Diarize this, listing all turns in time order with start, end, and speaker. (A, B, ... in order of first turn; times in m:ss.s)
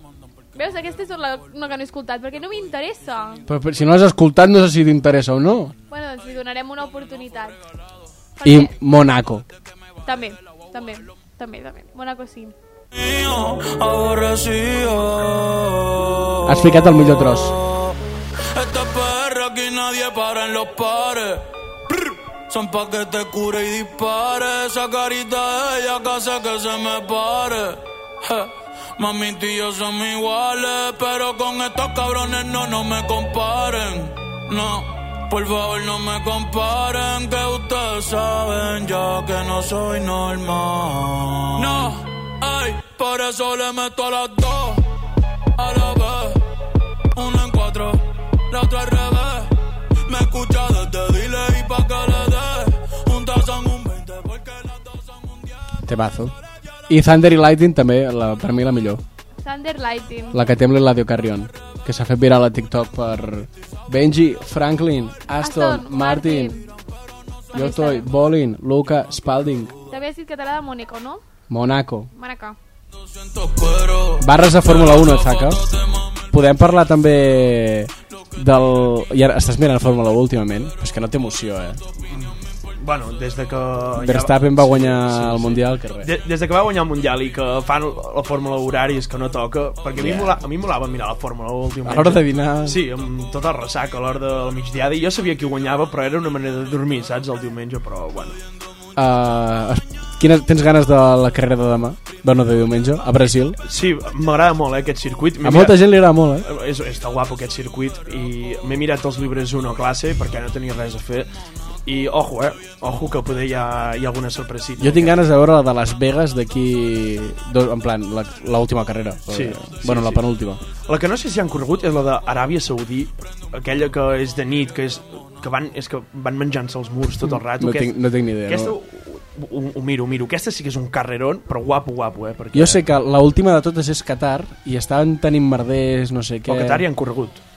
0:00.5-0:03.4 A
0:03.5-0:05.7 B
0:05.9-0:07.6 A
0:08.4-0:08.7 A
0:08.4-0:09.4 B
0:10.0-0:12.5 A
0:12.9-0:16.8 C
0:16.4-0:17.6 B
0:18.5-0:44.8 C
0:45.6-0:46.4 C
0:47.1-0:49.5 C
0:50.0-0:55.5 C
0:55.8-0:56.3 B
0:56.9-0:59.0 B
0:59.4-1:00.4 A
1:00.3-1:06.5 B
1:05.4-1:06.7 A
1:07.5-1:08.1 A
1:07.5-1:09.7 B
1:09.9-1:11.2 A
1:11.5-1:12.1 B
1:12.2-1:12.6 A
1:13.0-1:16.3 C
1:14.2-1:15.7 B
1:16.3-1:21.8 B
1:22.1-1:38.4 D
1:24.0-1:26.1 B
1:30.0-1:30.4 B
1:31.8-1:32.8 B
1:39.0-1:43.6 B
1:43.6-1:51.3 D
1:45.4-1:46.5 B
1:51.8-1:55.1 D
1:54.8-2:00.6 B
1:59.3-2:00.2 D
2:00.8-2:12.8 D
2:07.3-2:08.7 B
2:12.5-2:16.8 B
2:16.5-2:17.4 D